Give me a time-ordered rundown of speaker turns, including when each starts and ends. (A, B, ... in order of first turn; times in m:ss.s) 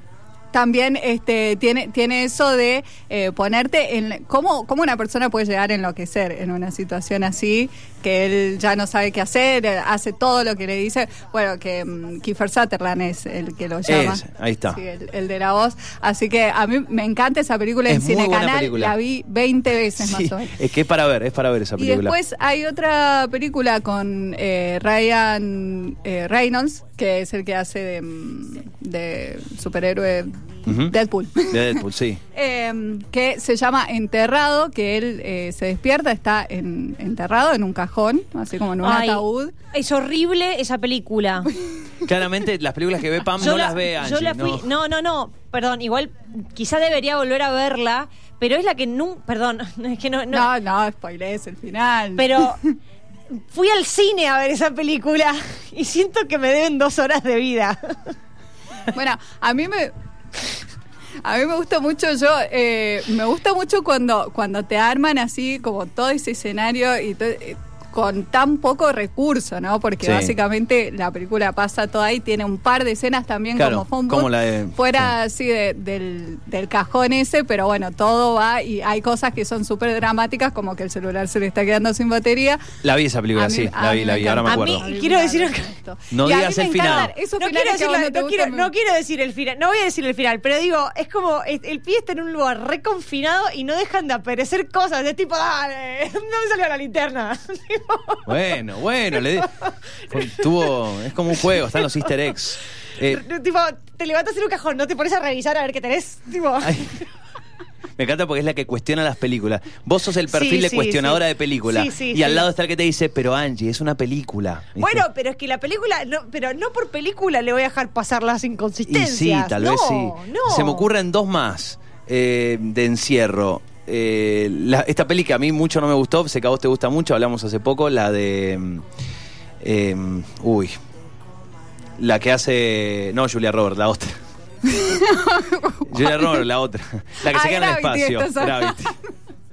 0:00.5-0:20.6 A
0:13.9-0:14.8 B
0:17.9-0:18.9 B
0:20.0-0:22.1 B
0:21.8-0:39.5 A
0:30.6-0:30.9 B
0:31.5-0:32.2 B
0:38.8-0:41.5 C
0:42.0-0:44.7 B
0:43.4-0:50.5 C
0:50.3-0:52.8 A
0:52.2-0:52.6 C
0:53.3-0:58.1 C
0:58.9-0:59.9 A
1:01.2-1:22.6 A
1:10.0-1:10.4 B
1:13.6-1:15.1 B
1:22.8-1:24.8 B
1:23.3-1:28.7 A
1:24.4-1:25.7 C
1:26.1-1:27.1 B
1:26.2-1:38.4 C
1:38.2-1:39.5 B
1:39.1-1:40.7 C
1:40.1-1:43.2 B
1:41.5-1:42.1 C
1:43.0-1:47.0 C
1:46.6-1:46.9 B
1:48.0-1:55.0 B
1:50.3-1:52.4 C
1:54.8-2:00.9 C
1:58.9-2:08.8 B
2:09.6-2:10.7 B
2:12.0-2:14.2 B
2:14.6-2:16.4 A
2:15.9-2:18.9 B
2:17.2-2:18.9 A